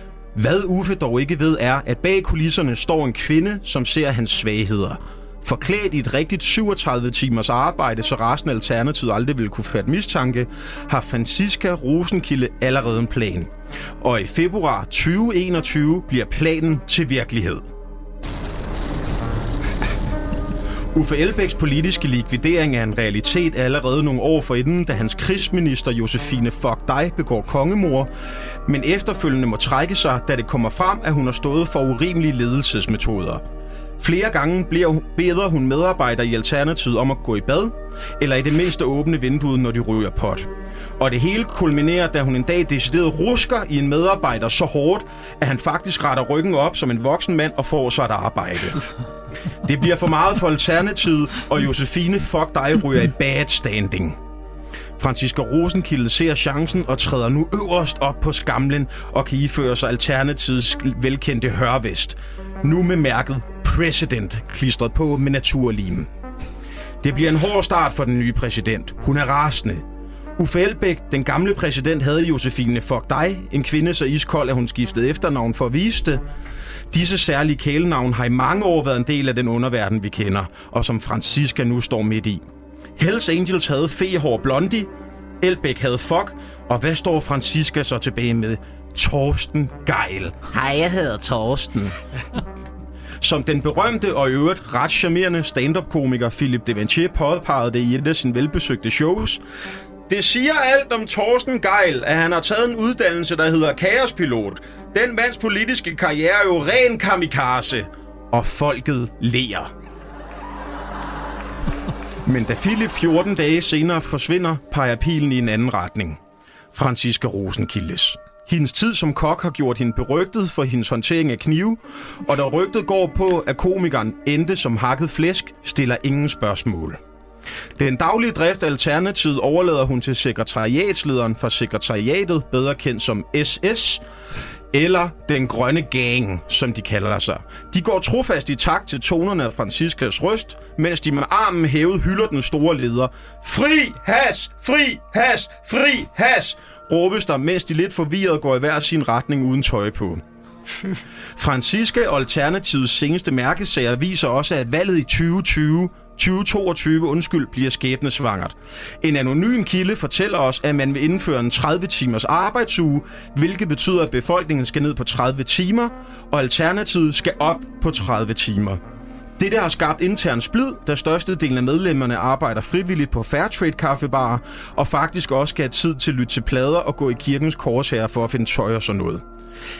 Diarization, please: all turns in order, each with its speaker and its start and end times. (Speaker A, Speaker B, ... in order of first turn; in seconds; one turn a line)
Speaker A: 0.3-17.7
Speaker A: 20.9-28.1
Speaker A: 28.6-33.4
Speaker A: 34.0-48.9
Speaker A: 49.6-54.1
Speaker A: 55.0-66.1
Speaker A: 67.0-69.8
Speaker A: 70.4-76.2
Speaker A: 76.9-82.4
Speaker A: 83.0-84.9
Speaker A: 85.4-92.0
Speaker A: 93.2-99.4
Speaker A: 100.1-109.7
Speaker A: 112.2-116.2
Speaker A: 116.7-127.0
Speaker A: 127.8-134.0
Speaker A: 134.7-150.2
Speaker A: 151.3-168.8
Speaker A: 169.4-179.2